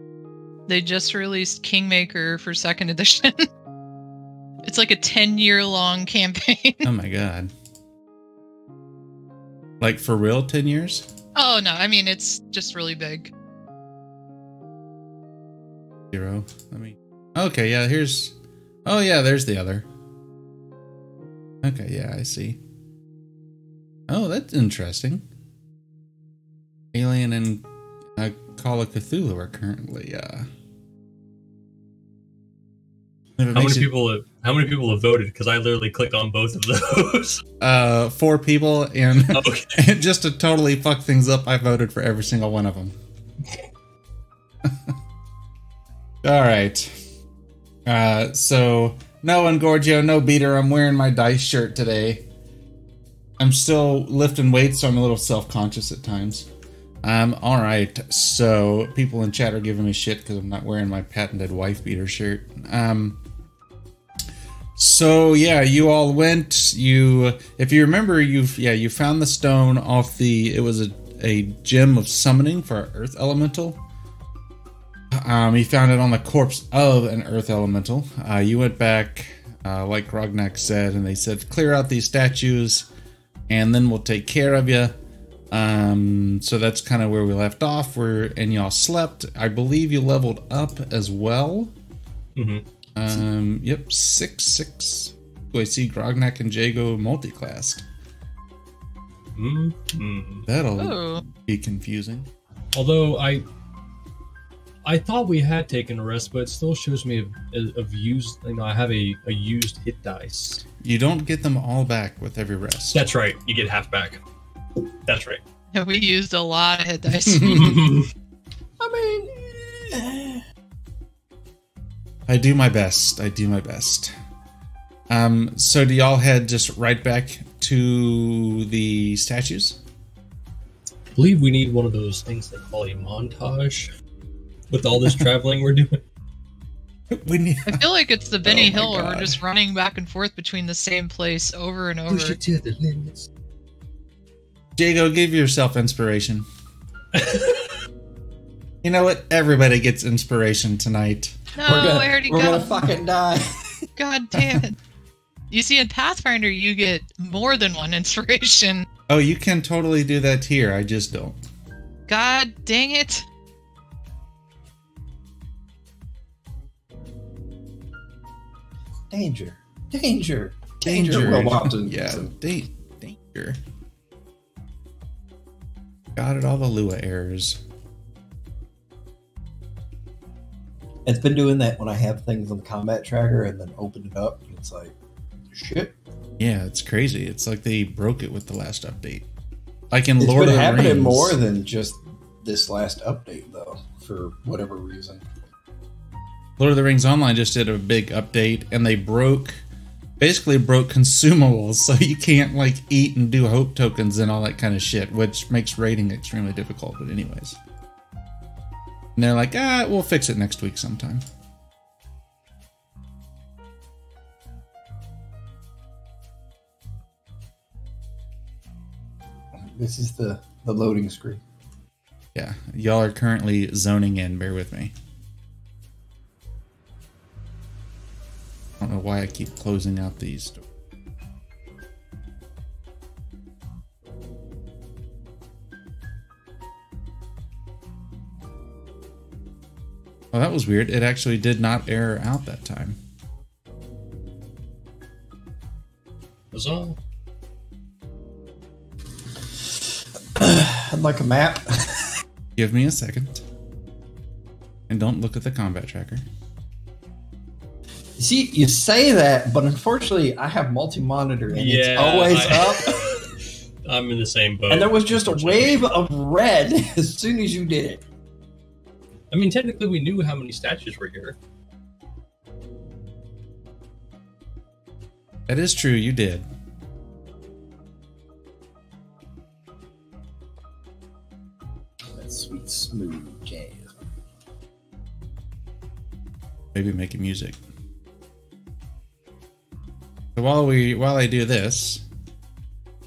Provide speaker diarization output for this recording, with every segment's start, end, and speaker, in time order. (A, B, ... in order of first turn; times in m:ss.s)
0:00.7-0:03.4 A
0:04.6-0:06.9 A
0:06.8-0:07.5 B
0:09.8-0:11.0 B
0:11.3-0:13.3 A
0:16.1-0:18.3 B
0:18.8-0:19.8 B
0:21.6-0:22.6 B
0:24.1-0:25.2 B
0:26.9-0:27.6 B
0:28.2-0:30.5 B
0:33.4-0:33.9 B
0:33.5-0:37.4 C
0:37.6-0:42.9 B
0:39.2-0:39.8 C
0:46.2-0:46.9 B
0:47.8-0:52.2 B
0:53.4-0:56.5 B
0:57.0-1:03.2 B
1:04.8-1:13.8 B
1:15.1-1:22.8 B
1:23.5-1:24.9 B
1:25.5-1:31.7 B
1:32.4-1:32.6 C
1:33.0-1:37.8 B
1:39.4-1:40.4 C
1:40.5-1:42.3 B
1:40.8-1:41.2 A
1:42.7-1:43.4 C
1:44.8-1:50.6 C
1:50.8-1:53.0 B
1:52.9-1:54.2 C
1:55.0-1:55.4 C
1:55.7-1:57.8 A
1:57.2-1:57.9 B
1:57.4-1:58.1 C
1:58.8-2:00.4 D
2:02.3-2:04.1 B
2:05.1-2:09.8 B
2:11.1-2:13.9 C
2:14.7-2:16.0 C
2:17.1-2:17.9 B
2:17.6-2:22.4 A
2:18.4-2:19.4 B
2:22.1-2:23.3 C
2:24.8-2:26.4 B
2:27.1-2:27.7 C
2:28.8-2:31.3 B
2:31.6-2:32.8 A
2:31.6-2:33.5 D
2:34.0-2:34.8 A
2:34.3-2:34.6 B
2:35.5-2:38.8 A
2:39.1-2:41.4 B
2:42.1-2:43.2 A
2:49.1-2:52.3 D
2:50.8-2:53.6 B
2:56.2-2:57.6 B
3:01.0-3:04.9 D
3:05.5-3:05.9 D
3:06.4-3:09.3 B
3:09.9-3:11.4 B
3:10.2-3:15.2 D
3:16.6-3:19.6 B
3:20.2-3:27.6 B
3:29.2-3:31.2 B
3:39.8-3:41.4 D
3:42.3-3:44.9 B
3:48.8-3:50.6 B
4:00.3-4:03.0 B
4:06.5-4:07.0 C
4:10.3-4:12.1 D
4:12.6-4:13.4 B
4:14.9-4:16.2 B
4:18.2-4:23.0 D
4:21.5-4:23.2 C
4:23.8-4:25.8 C
4:24.7-4:28.0 D
4:29.3-4:31.4 C
4:35.5-4:36.4 B
4:42.1-4:44.0 D
4:46.7-4:47.6 B
4:50.3-4:52.0 B